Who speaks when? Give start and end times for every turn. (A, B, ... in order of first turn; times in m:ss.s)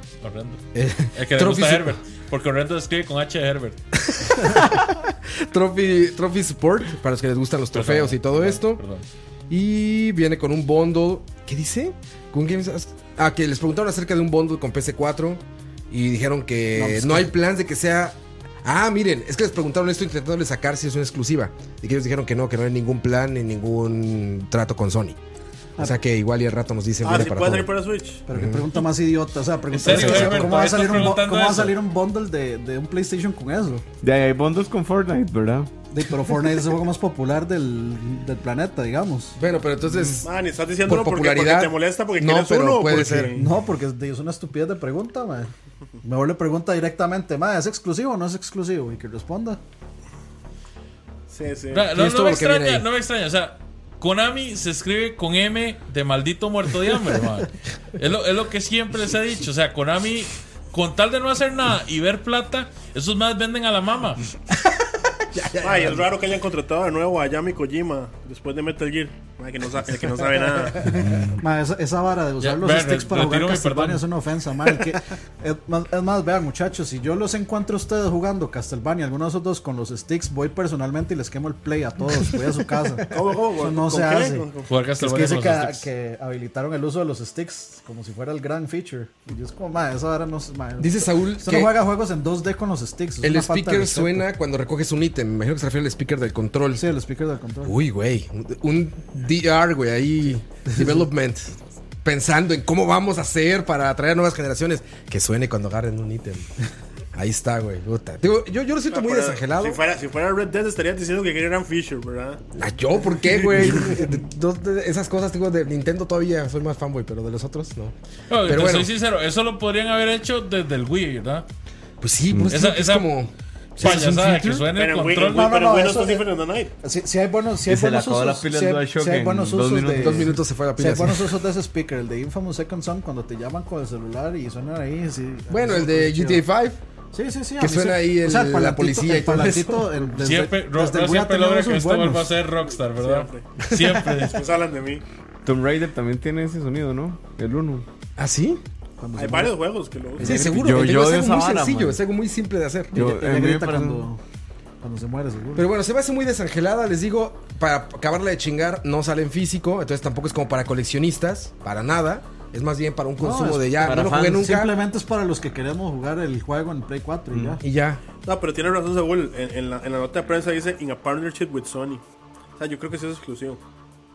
0:00.2-0:00.6 A
0:00.7-0:02.0 B
0:01.1-0:03.8 A
0:04.0-0:08.8 B
0:07.7-0:09.0 A
0:09.5-0:25.2 B
0:16.8-0:17.3 C
0:25.8-0:27.7 B
0:27.0-0:28.2 D
0:28.2-0:33.8 C
0:28.3-0:28.6 B
0:29.7-0:31.8 A
0:29.8-0:30.5 B
0:34.0-0:35.7 E
0:35.9-0:39.4 C
0:39.4-0:40.3 B
0:40.2-0:43.5 D
0:40.8-0:43.3 B
0:43.3-0:45.5 C
0:46.0-0:49.6 C
0:51.3-0:51.9 D
0:51.7-1:04.2 A
0:51.9-0:52.8 B
1:05.3-1:06.0 B
1:05.6-1:11.0 D
1:11.0-1:11.4 E
1:11.0-1:34.2 C
1:12.4-1:14.0 A
1:23.1-1:24.7 D
1:24.7-1:25.9 A
1:30.8-1:31.7 B
1:33.2-1:36.8 B
1:36.8-1:37.7 C
1:37.6-1:46.5 B
1:47.1-1:49.8 B
1:48.9-1:52.4 D
1:52.6-1:58.9 B
1:58.3-2:01.5 A
2:02.0-2:04.7 B
2:02.5-2:03.1 A
2:03.8-2:05.5 A
2:04.7-2:06.7 D
2:05.2-2:06.3 C
2:06.8-2:16.4 C
2:07.6-2:10.4 E
2:10.0-2:11.3 B
2:15.5-2:16.8 B
2:17.1-2:22.3 C
2:17.6-2:20.1 B
2:20.2-2:24.4 A
2:22.9-2:23.5 D
2:23.6-2:24.1 B
2:24.2-2:25.0 D
2:25.4-2:27.8 E
2:28.2-2:28.6 B
2:29.0-2:29.6 C
2:29.2-2:30.4 D
2:30.2-2:32.0 E
2:30.2-2:32.9 B
2:30.3-2:30.6 C
2:32.9-2:34.1 E
2:32.9-2:34.2 C
2:34.8-2:35.7 C
2:35.5-2:44.8 B
2:43.2-2:47.6 C
2:43.8-2:44.4 E
2:47.3-2:47.6 E
2:47.6-2:48.0 B
2:48.2-2:52.0 D
2:52.6-2:53.6 D